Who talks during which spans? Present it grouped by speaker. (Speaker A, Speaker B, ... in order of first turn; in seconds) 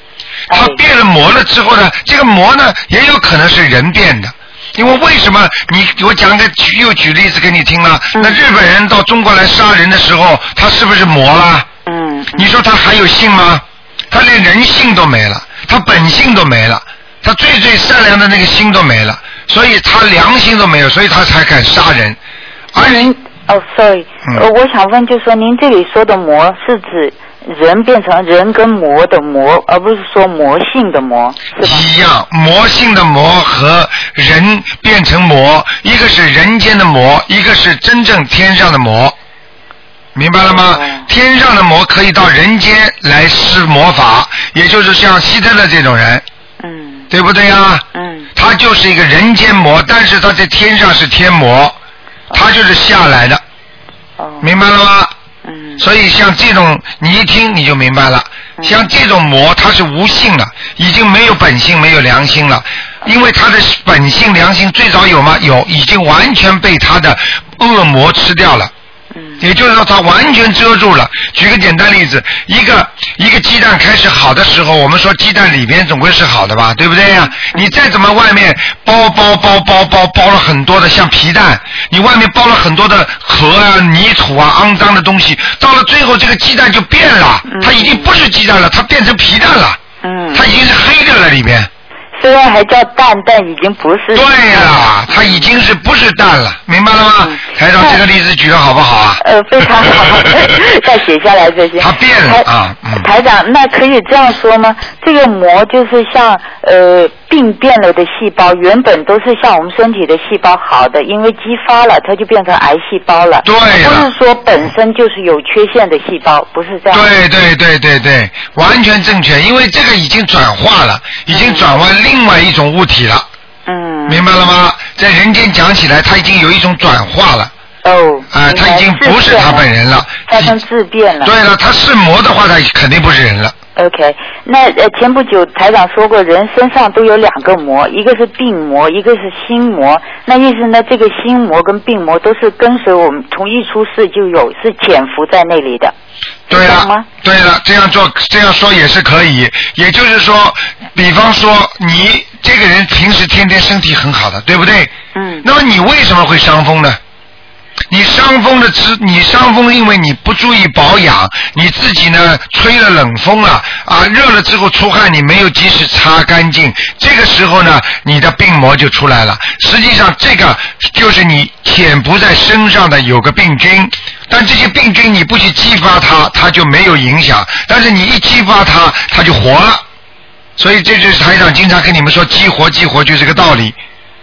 Speaker A: 0.5-0.8, 8.1-8.4, 11.8-12.5, 22.8-31.9, 40.4-41.1, 46.6-47.1, 47.9-48.3, 54.2-54.5, 55.4-55.8, 58.6-58.8, 69.1-69.4, 87.5-88.1, 90.0-90.5, 92.2-95.5, 97.2-98.0, 99.2-117.1, 121.3-121.7, 123.7-124.3, 127.8-129.7, 130.3-131.3, 133.8-145.9, 146.5-147.1, 155.1-155.4
Speaker B: 0.5-11.7, 12.3-22.2, 22.7-23.1, 31.6-39.1, 40.1-46.2, 47.1-47.8, 48.4-51.8, 52.3-53.4, 54.4-55.1, 55.8-68.7, 69.4-89.8, 90.3-91.7, 94.1-100.3, 101.8-103.1, 113.4-114.1, 116.9-123.2, 124.1-127.5, 128.3-130.6, 131.2-133.5, 146.5-154.9, 155.4-157.0, 157.9-179.8, 180.6-183.8